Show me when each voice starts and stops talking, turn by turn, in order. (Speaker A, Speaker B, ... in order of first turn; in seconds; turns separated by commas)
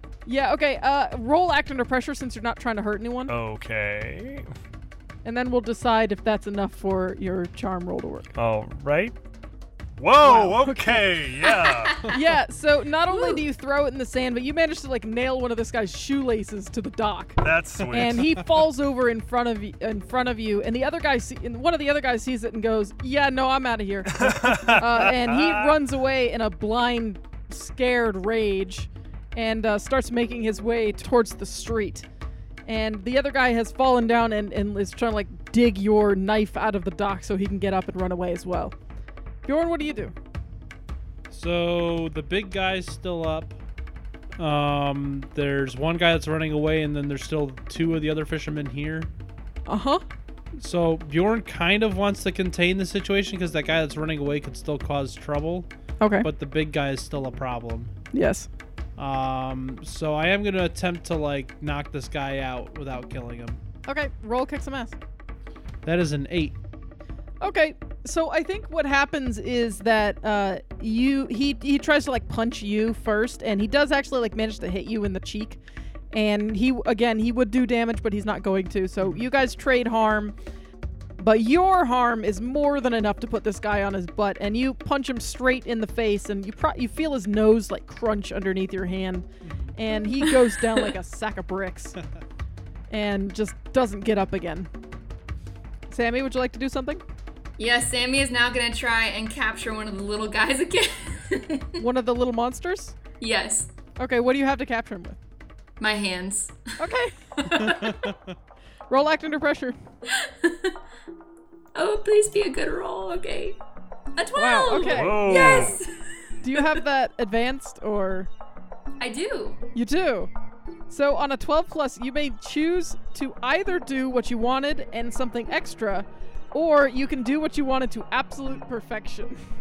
Speaker A: 0.3-3.3, Speaker B: 3.3-4.5, Speaker A: 5.2-8.3, Speaker B: 8.3-9.2, Speaker B: 10.0-12.1, Speaker A: 10.2-11.1, Speaker C: 11.4-12.2, Speaker A: 12.1-32.1, Speaker C: 13.1-13.4, Speaker B: 17.4-18.4, Speaker B: 24.1-25.8, Speaker A: 32.7-38.8, Speaker A: 39.5-40.1, Speaker D: 41.3-43.6, Speaker D: 44.4-49.1, Speaker A: 49.7-50.0, Speaker D: 50.6-55.7, Speaker A: 56.0-56.3, Speaker D: 56.2-57.9, Speaker A: 58.1-58.5, Speaker D: 59.0-63.6, Speaker A: 63.9-65.0, Speaker D: 65.8-66.6, Speaker A: 67.4-75.6, Speaker A: 76.1-80.3, Speaker A: 81.2-92.0, Speaker D: 89.4-89.8, Speaker A: 92.9-94.7, Speaker A: 95.9-97.0, Speaker C: 97.6-101.8, Speaker A: 101.8-103.0, Speaker C: 103.2-103.7, Speaker A: 104.0-105.2, Speaker C: 105.8-106.7, Speaker A: 106.8-107.7, Speaker C: 107.4-108.1, Speaker D: 107.6-108.3, Speaker A: 108.9-109.8, Speaker C: 110.1-110.8, Speaker C: 111.8-113.6, Speaker C: 114.2-115.9, Speaker A: 114.3-115.8, Speaker B: 114.8-115.8, Speaker A: 116.4-118.3, Speaker C: 116.5-116.8, Speaker C: 119.0-119.6, Speaker A: 119.8-120.3, Speaker A: 120.9-129.4